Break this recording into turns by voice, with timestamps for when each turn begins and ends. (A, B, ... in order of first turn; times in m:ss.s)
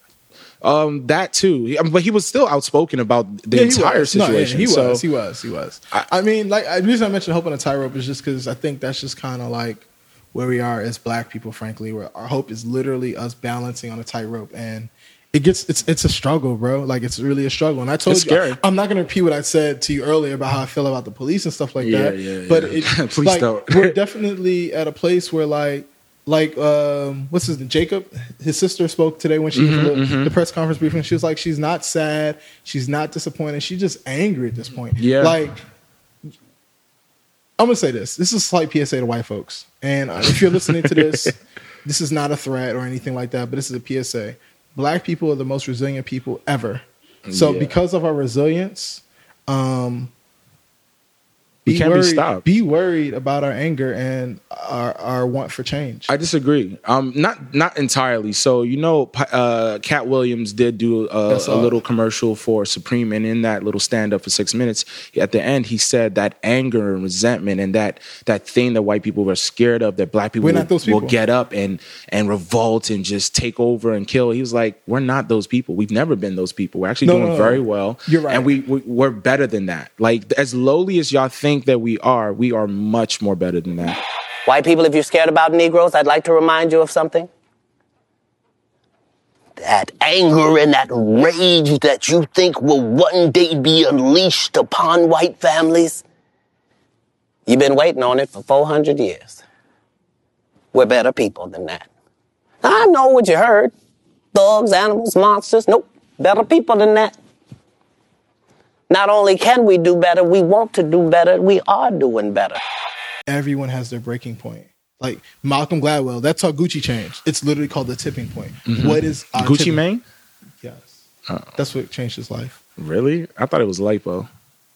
0:00.6-0:05.0 A
0:03.5-0:35.6 B
0:18.0-0:18.6 A
0:21.8-0:23.9 A
0:29.5-0:30.3 A
0:35.0-0:35.4 A
0:37.6-0:50.1 B
0:40.3-0:41.3 A
0:47.2-0:47.7 A
0:51.6-0:56.1 B
0:51.7-0:52.4 A
0:56.1-1:24.0 A
1:01.3-1:01.8 B
1:10.4-1:11.2 B
1:17.0-1:18.5 B
1:24.4-1:27.3 C
1:29.6-1:36.0 C
1:37.5-1:39.4 C
1:40.7-1:41.9 C
1:42.6-1:43.7 C
1:44.3-1:47.1 C
1:48.9-1:52.6 C
1:53.3-1:59.8 B
1:58.7-2:00.0 A
2:00.6-2:01.0 B
2:01.5-2:02.6 B
2:02.8-2:04.3 A